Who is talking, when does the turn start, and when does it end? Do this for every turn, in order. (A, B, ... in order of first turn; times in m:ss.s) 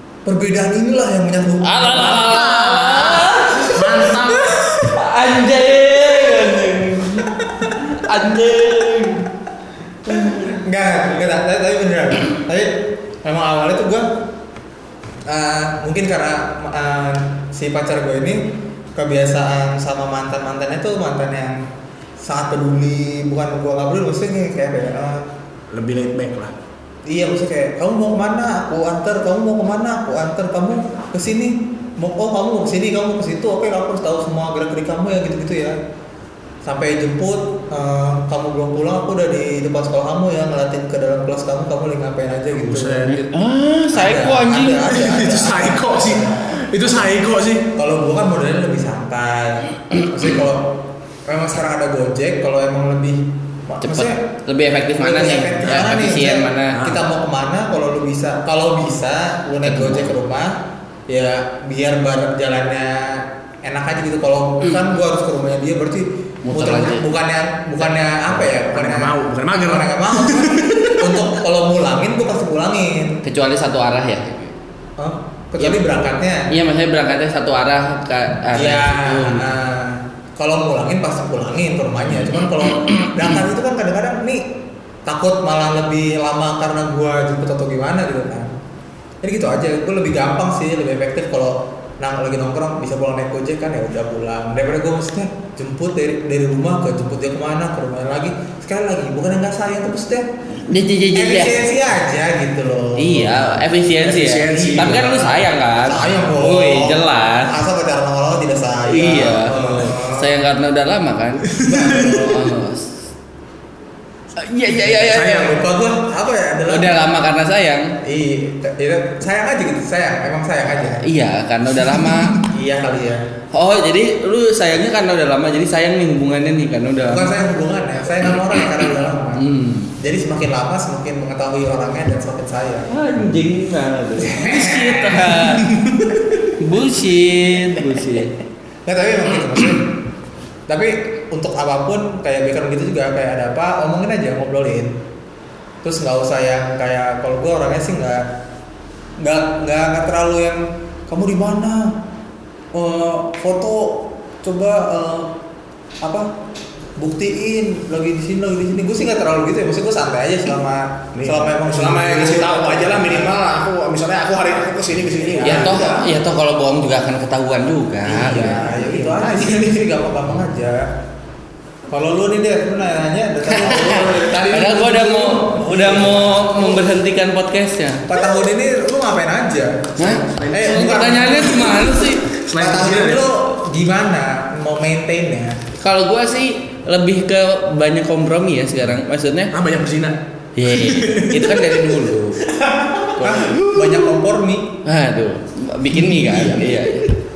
0:00.2-0:02.2 A
0:01.6-0:04.1 B
0:01.9-0:04.7 C
0:04.3-0:04.7 A
0:04.8-0:09.3 B
0:10.1-0:10.5 B
0:10.1-0:14.1 A
0:15.2-0:21.7 A
0:22.2-0:25.3 A
0:25.7-0:26.5 C
0:27.0-0:35.8 A
0:36.6-0:43.1 A
0:42.5-0:43.3 C
0:43.1-0:44.9 B
0:43.9-0:46.8 A
0:44.8-0:47.7 C
0:47.7-0:54.2 A
0:53.8-0:56.8 B
0:55.0-1:09.1 A
0:55.6-0:56.0 C
0:56.7-0:57.0 C
0:59.6-1:00.1 B
1:06.4-1:07.0 B
1:08.3-1:11.3 C
1:09.7-1:13.2 A
1:13.2-1:14.5 B
1:15.0-1:16.5 A
1:16.5-1:19.4 B
1:18.5-1:24.4 A
1:25.0-1:28.5 A
1:29.2-1:40.3 A
1:40.6-1:41.6 B
1:41.2-1:43.6 A
1:43.0-1:47.5 B
1:44.0-1:45.4 C
1:44.4-1:45.3 A
1:45.8-1:50.3 A
1:48.9-1:52.9 B
1:51.6-1:52.2 C
1:51.7-1:52.5 A
1:54.3-1:55.5 B
1:54.9-1:57.0 A
1:54.9-1:55.6 C
1:56.7-1:58.0 B
1:58.0-2:01.0 A
2:01.0-2:02.4 B
2:01.8-2:02.4 C
2:02.4-2:03.3 A
2:03.5-2:07.3 B
2:07.1-2:09.4 A
2:08.6-2:09.9 B
2:10.0-2:12.9 A
2:12.9-2:15.7 B
2:14.2-2:15.4 A
2:15.4-2:16.2 C
2:16.6-2:18.4 B
2:18.8-2:19.9 A
2:20.7-2:25.0 A
2:25.8-2:28.3 A
2:29.2-2:32.0 A
2:32.7-2:35.3 A
2:36.0-2:36.3 A
2:37.0-2:43.3 A
2:41.1-2:46.0 C
2:45.3-2:45.9 A
2:45.4-2:48.6 B
2:48.0-2:50.9 A
2:48.3-2:49.9 C
2:51.9-2:56.8 A
2:53.5-2:58.0 B
2:53.8-2:55.0 C
2:58.1-3:01.7 A
3:00.0-3:02.3 B
3:00.2-3:03.3 C
3:02.6-3:05.6 A
3:05.8-3:09.5 B
3:09.5-3:14.1 C
3:10.6-3:12.5 B
3:13.2-3:13.5 B
3:13.2-3:14.8 A
3:14.8-3:17.2 B
3:16.0-3:16.8 C